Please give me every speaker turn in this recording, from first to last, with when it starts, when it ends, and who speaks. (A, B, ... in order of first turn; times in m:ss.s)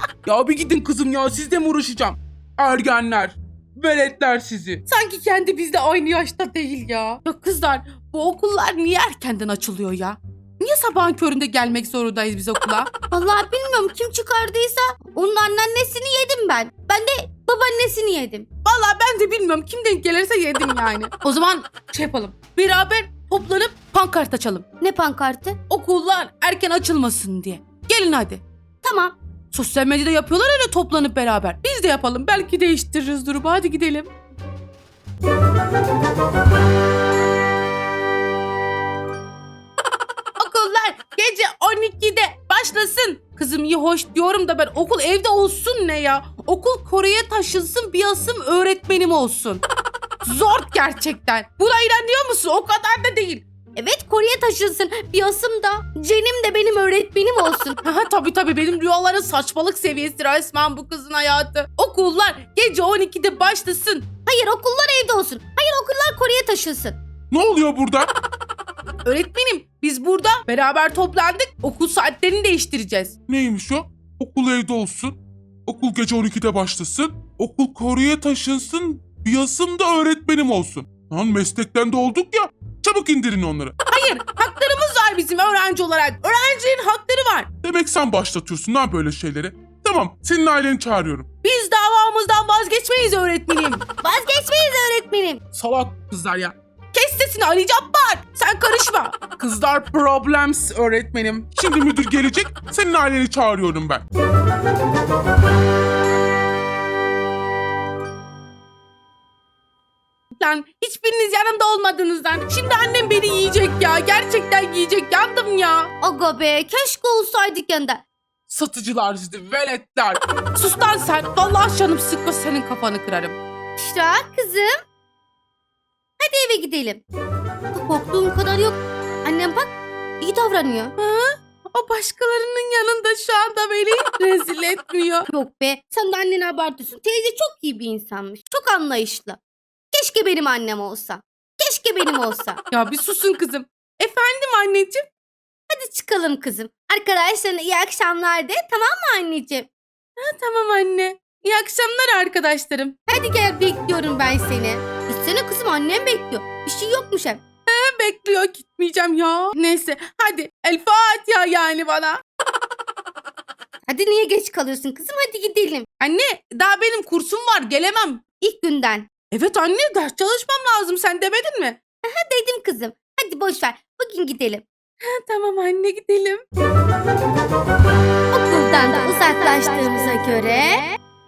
0:00.2-0:12.9 A
0:13.1-0:18.4 B
0:18.6-0:24.7 A
0:24.8-0:25.6 B
0:25.7-0:28.4 A
0:28.8-0:29.1 B
0:29.5-0:34.1 A
0:40.4-0:49.6 A
0:50.2-0:53.4 A
0:53.7-0:57.8 B
0:57.8-1:04.1 A
1:04.2-1:07.0 B
1:07.3-1:08.1 C
1:09.0-1:13.1 A
1:13.3-1:23.7 C
1:23.9-1:27.5 A
1:27.6-1:31.3 C
1:31.4-1:33.8 A
1:34.0-1:35.4 B
1:35.5-1:41.5 A
1:41.6-1:44.0 C
1:50.4-1:55.9 A
1:56.0-1:58.0 B
1:58.5-2:03.4 A
2:03.8-2:04.8 B
2:06.2-2:07.0 B
2:07.7-2:10.9 B
2:11.0-2:15.3 A
2:15.3-2:19.4 B
2:19.9-2:22.6 B
2:22.7-2:25.0 A
2:25.7-2:29.7 B
2:30.2-2:32.9 A
2:33.1-2:37.4 B
2:37.6-2:42.2 A
2:43.9-2:45.8 B
2:46.0-2:48.2 A
2:48.4-2:49.1 B
2:49.3-2:51.8 A
2:52.0-2:54.6 B
2:55.0-2:56.4 A
2:58.3-3:01.0 B